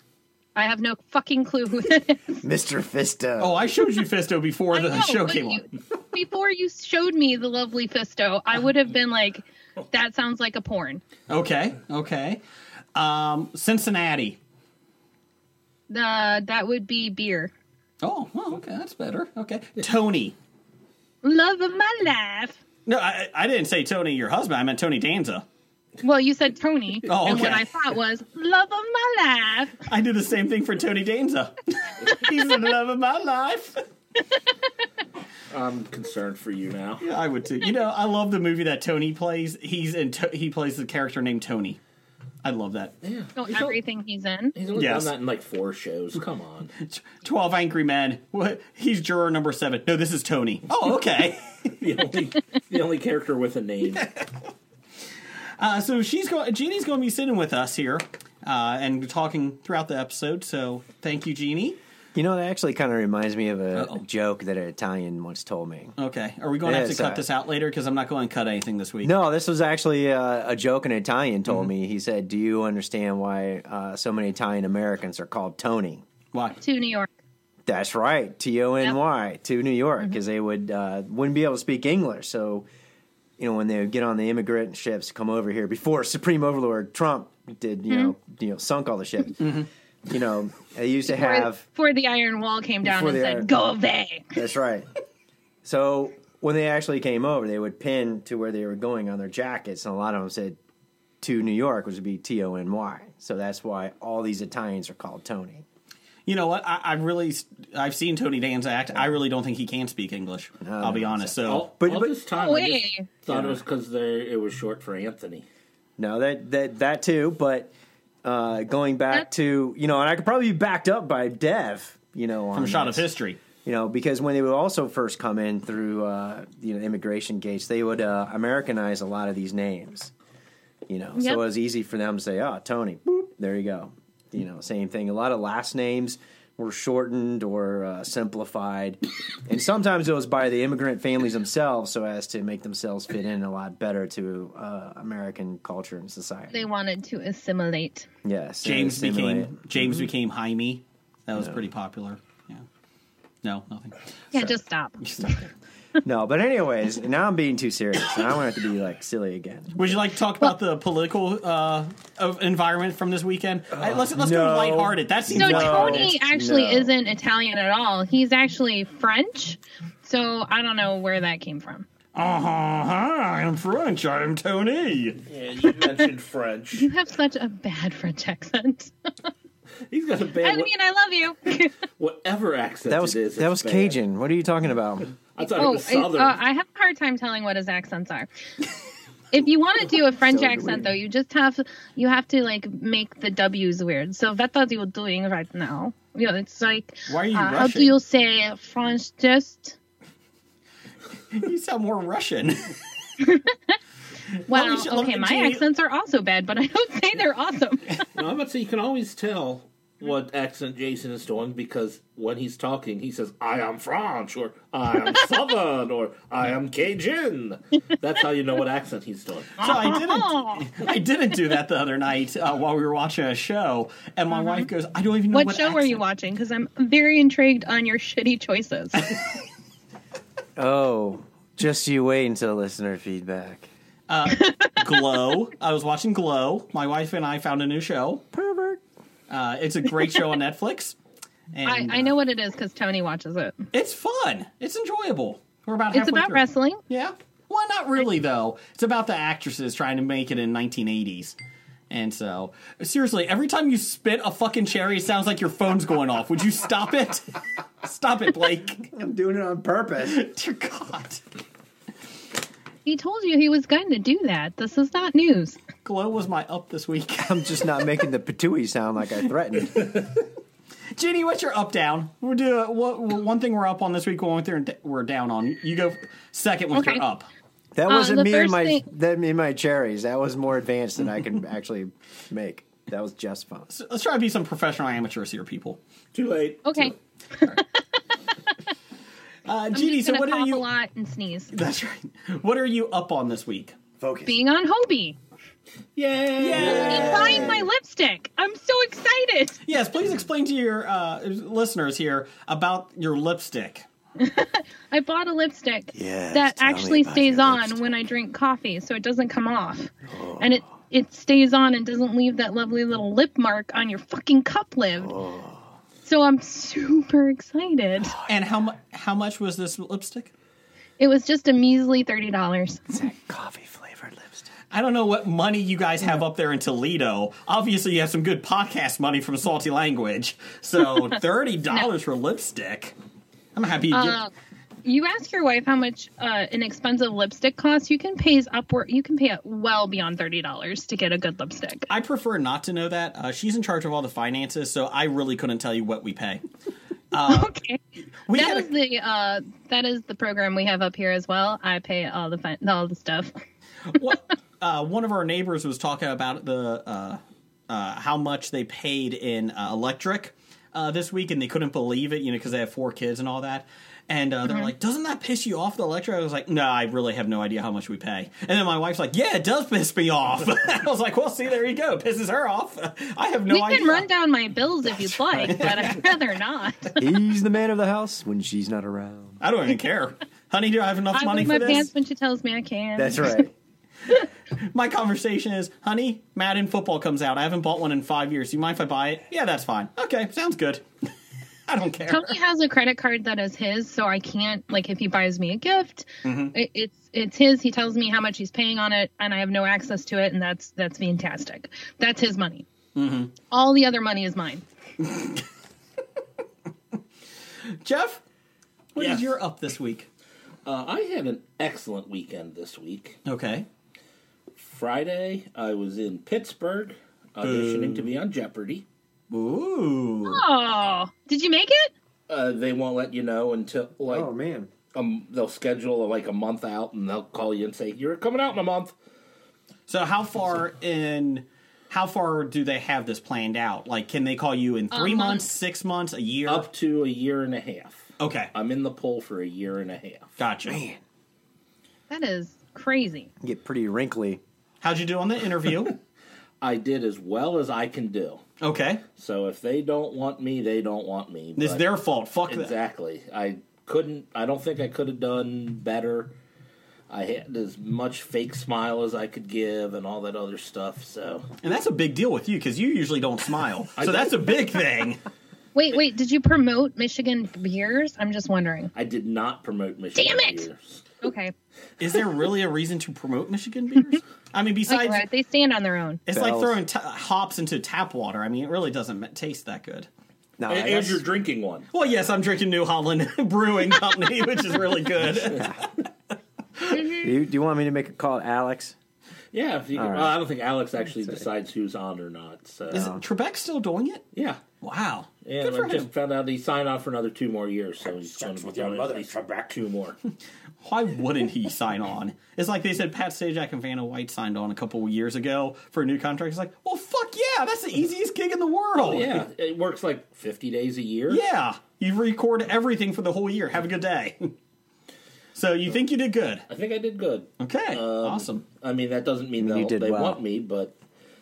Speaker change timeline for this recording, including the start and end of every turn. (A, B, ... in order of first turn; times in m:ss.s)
0:00.6-0:02.4 A
0:02.4-0:03.6 B
0:03.4-0:05.6 C
0:04.7-0:11.0 A
0:11.3-0:12.4 C
0:12.9-0:14.4 C
0:15.9-0:17.5 A
0:18.0-0:20.3 C
0:21.2-0:22.6 A
0:22.8-0:25.4 C
0:26.0-0:29.8 A
0:27.0-0:27.7 C
0:29.9-0:33.8 C
0:35.5-0:37.0 D
0:37.0-0:41.8 C
0:42.4-0:42.9 C
0:43.0-0:43.8 D
0:43.4-0:44.5 A
0:44.6-0:46.7 D
0:44.7-0:45.1 C
0:46.8-0:51.7 C
0:51.8-0:54.1 D
0:55.6-1:01.8 C
1:02.1-1:05.9 B
1:03.7-1:04.0 C
1:06.0-1:09.1 C
1:06.6-1:07.2 B
1:09.0-1:16.0 B
1:16.3-1:16.6 C
1:16.6-1:17.1 A
1:17.6-1:22.7 B
1:23.4-1:31.6 B
1:27.9-1:28.1 A
1:29.4-1:29.7 C
1:31.1-1:34.3 A
1:32.8-1:33.5 B
1:34.3-1:34.9 B
1:35.6-1:40.6 B
1:41.2-1:45.6 B
1:46.2-1:51.7 C
1:50.6-1:52.1 B
1:51.4-1:55.4 D
1:52.3-1:53.1 A
1:53.3-1:53.6 B
1:56.0-1:57.7 B
1:58.2-2:03.0 B
2:02.5-2:03.4 C
2:03.6-2:10.1 B
2:10.9-2:26.6 B
2:11.2-2:11.4 A
2:26.5-2:28.1 A
2:28.2-2:30.1 B
2:28.6-2:32.6 C
2:33.4-2:34.5 C
2:34.3-2:35.4 A
2:35.0-2:35.5 C
2:36.0-2:40.0 B
2:39.7-2:46.2 C
2:43.7-2:46.9 B
2:45.3-2:51.8 A
2:52.1-2:55.2 C
2:55.3-2:56.9 D
2:56.8-2:59.3 A
2:59.9-3:00.7 D
3:00.4-3:01.8 A
3:02.0-3:04.0 D
3:02.8-3:05.1 B
3:05.3-3:06.4 D
3:05.4-3:08.3 A
3:09.3-3:19.8 A
3:10.2-3:10.9 B
3:17.1-3:18.0 C
3:21.3-3:22.7 C
3:23.2-3:23.5 A
3:24.4-3:25.6 C
3:24.5-3:28.0 A
3:28.1-3:39.7 D
3:39.6-3:40.7 A
3:39.6-3:46.0 C
3:44.3-3:44.7 A
3:45.3-3:49.1 A
3:50.6-3:53.7 B
3:54.1-3:58.2 C
3:54.4-3:55.0 A
3:58.3-3:58.8 B
3:59.3-4:01.0 C
4:01.5-4:02.1 C
4:01.6-4:03.6 A
4:03.7-4:11.4 C
4:05.9-4:06.8 A
4:11.9-4:18.9 C
4:18.9-4:20.2 B
4:20.0-4:21.2 C
4:22.8-4:25.6 A
4:25.8-4:27.4 C
4:27.2-4:29.9 B
4:30.9-4:37.3 C
4:36.7-4:37.0 A
4:37.7-4:43.7 B
4:37.9-4:38.8 A
4:43.7-4:45.8 C
4:46.1-4:46.9 D
4:46.6-4:47.6 A
4:49.4-4:50.6 C
4:49.7-4:51.5 A
4:51.5-4:53.8 C
4:54.0-4:54.4 B
4:54.2-4:55.2 A
4:56.0-4:57.4 D
4:56.4-4:57.5 C
4:56.5-4:57.7 B
4:56.6-4:59.6 A
4:59.6-5:03.8 C
5:04.2-5:15.2 A
5:05.9-5:07.8 B
5:10.1-5:10.6 B
5:15.0-5:15.7 B
5:16.0-5:18.2 A
5:18.2-5:20.3 C
5:21.0-5:22.8 A
5:22.9-5:24.5 B
5:24.7-5:32.9 C
5:33.5-5:34.2 C
5:33.9-5:34.3 A
5:34.8-5:41.9 A
5:41.9-5:46.4 C
5:47.1-5:47.5 C
5:47.2-5:47.8 A
5:48.3-5:48.7 C
5:48.3-5:53.4 A
5:53.9-6:14.1 C
6:04.4-6:04.7 A
6:13.5-6:17.0 A
6:15.4-6:16.0 C
6:15.4-6:15.8 B
6:17.0-6:19.4 B
6:19.4-6:21.9 C
6:21.1-6:23.4 A
6:23.0-6:23.5 B
6:24.5-6:30.8 C
6:31.7-6:32.3 C
6:32.1-6:42.6 A
6:36.2-6:36.5 C
6:42.9-6:43.3 C
6:43.5-6:44.6 A
6:45.0-6:45.4 C
6:47.8-6:48.2 C
6:48.9-6:50.1 C
6:49.0-6:49.3 D
6:50.6-6:53.2 D
6:53.2-6:53.7 C
6:54.6-6:58.8 D
6:57.4-6:58.1 C
6:59.3-7:00.4 C
7:00.2-7:01.9 A
7:02.3-7:04.3 D
7:04.1-7:04.7 B
7:04.9-7:08.9 D
7:09.9-7:16.7 C
7:14.9-7:15.4 A
7:16.4-7:20.3 D
7:18.2-7:18.5 C
7:20.4-7:20.8 C
7:20.7-7:21.0 B
7:22.1-7:23.3 A
7:23.4-7:24.4 B
7:24.8-7:26.0 C
7:26.6-7:28.4 D
7:28.6-7:29.0 C
7:29.2-7:31.9 D
7:31.6-7:32.7 C
7:32.5-7:36.3 D
7:37.1-7:41.5 D
7:41.6-7:45.2 C
7:44.0-7:44.5 D
7:45.7-7:48.9 A
7:48.9-7:51.1 D
7:50.2-7:50.6 A
7:51.2-7:51.5 A
7:52.0-7:55.2 C
7:54.9-7:56.2 A
7:56.3-8:00.1 C
7:56.3-7:56.8 B
8:00.6-8:01.2 B
8:00.7-8:01.9 D
8:01.9-8:06.0 C
8:05.5-8:05.8 B
8:06.9-8:07.3 A
8:07.0-8:08.9 B
8:09.5-8:13.1 D
8:09.9-8:10.4 B
8:12.9-8:14.2 C
8:12.9-8:13.2 B
8:14.3-8:14.6 D
8:14.8-8:16.1 C
8:15.4-8:20.2 D
8:18.5-8:19.2 B
8:20.8-8:29.4 C
8:29.0-8:31.4 D
8:31.3-8:34.5 C
8:35.5-8:36.6 C
8:36.7-8:41.0 D
8:37.6-8:38.6 C
8:39.6-8:40.4 B